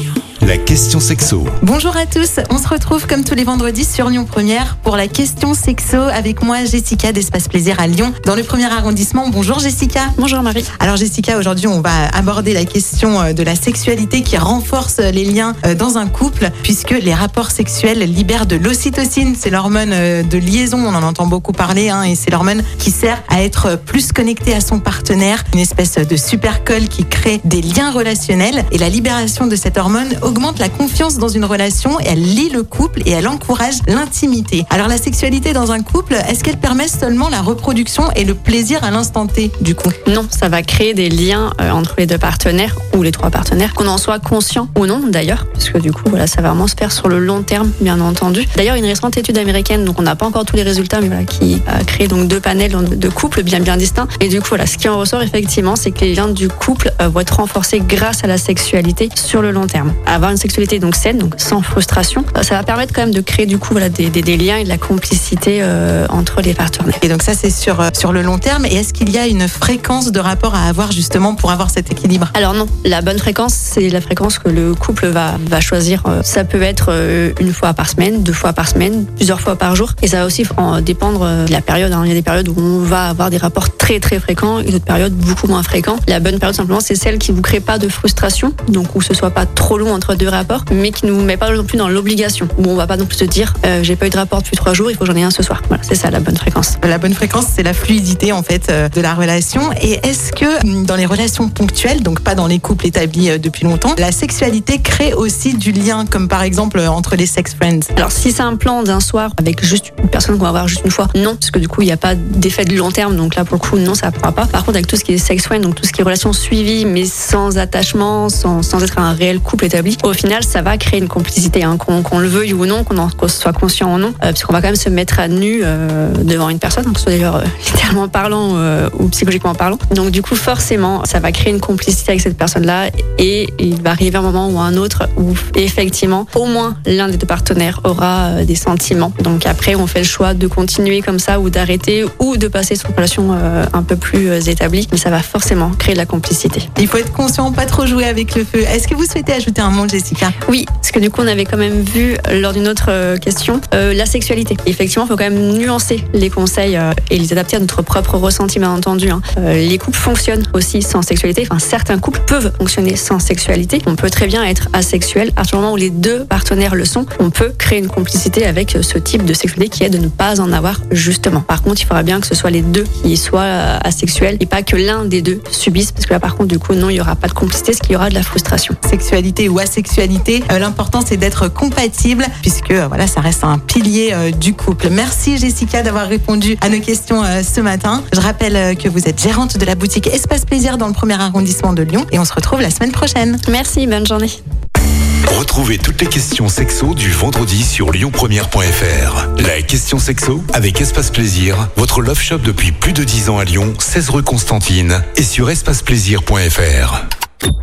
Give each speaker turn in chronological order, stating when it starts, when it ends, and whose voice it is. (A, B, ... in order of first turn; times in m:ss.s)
0:00.4-0:01.5 A
0:01.6-0:10.1 B
0:10.2-0:10.7 C
0:10.7-0:39.9 B
0:40.0-1:07.0 C
1:07.0-1:12.3 B
1:12.3-1:36.8 C
1:36.8-1:47.9 B
1:48.0-2:26.7 C
2:26.8-2:30.3 B
2:30.4-2:58.8 C
2:58.8-3:13.4 B
3:13.4-3:14.4 C
3:15.3-3:27.0 A